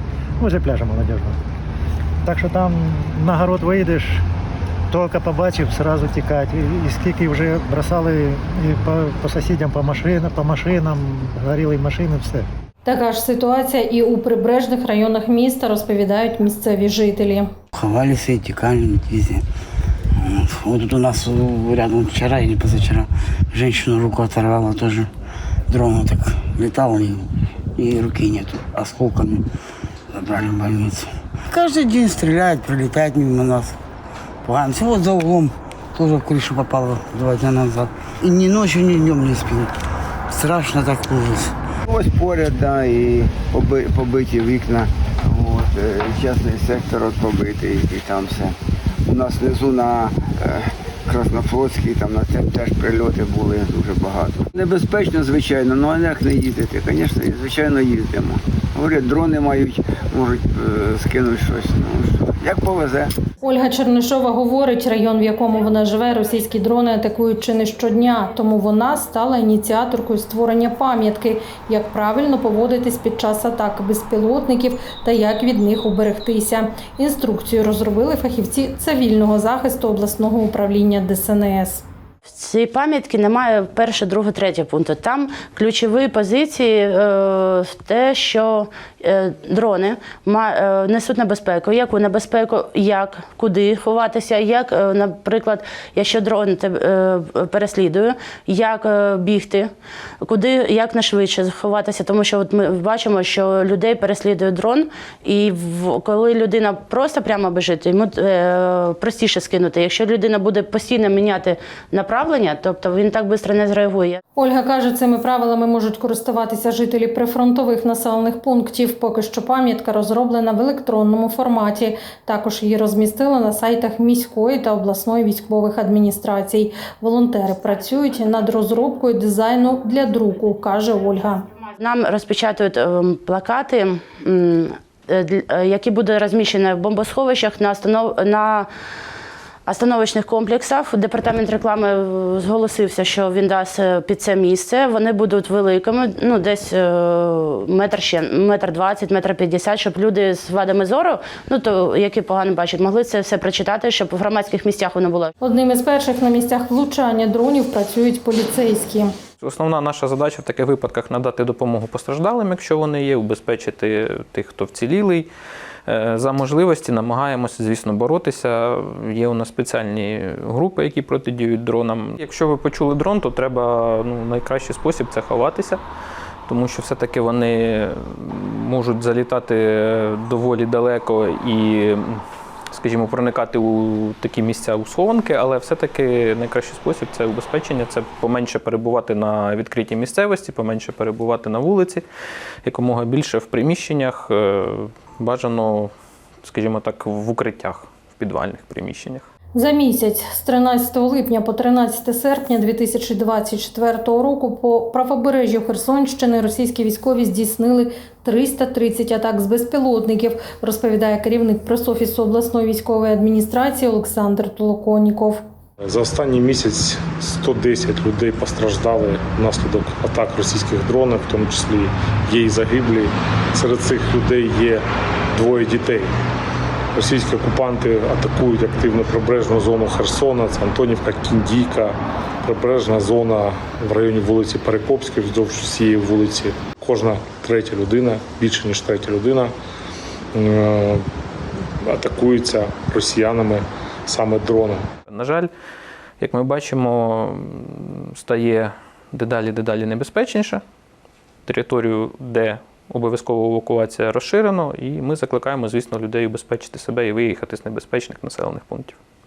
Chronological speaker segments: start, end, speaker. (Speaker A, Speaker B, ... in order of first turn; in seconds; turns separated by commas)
Speaker A: 0.4-1.4, Speaker A: 2.2-4.2, Speaker A: 4.9-12.4, Speaker B: 12.8-17.5, Speaker C: 17.7-19.4, Speaker C: 20.1-25.1, Speaker C: 25.7-29.5, Speaker C: 30.1-33.8, Speaker C: 34.4-39.7, Speaker C: 40.3-41.6, Speaker D: 41.9-48.5, Speaker D: 49.0-63.1, Speaker B: 63.4-81.8, Speaker E: 82.3-99.7, Speaker E: 100.2-114.2, Speaker B: 114.3-131.5, Speaker E: 131.8-138.7, Speaker E: 139.7-155.3, Speaker B: 155.4-159.1, Speaker F: 159.4-165.3, Speaker F: 165.9-175.8, Speaker F: 176.5-182.2, Speaker F: 182.7-192.0, Speaker F: 192.6-195.9, Speaker F: 196.4-199.3, Speaker B: 199.6-215.4, Speaker G: 215.8-226.1, Speaker G: 226.9-239.5, Speaker G: 240.3-241.0, Speaker G: 241.8-244.8, Speaker F: 245.1-245.5, Speaker F: 246.2-250.6, Speaker F: 251.4-259.0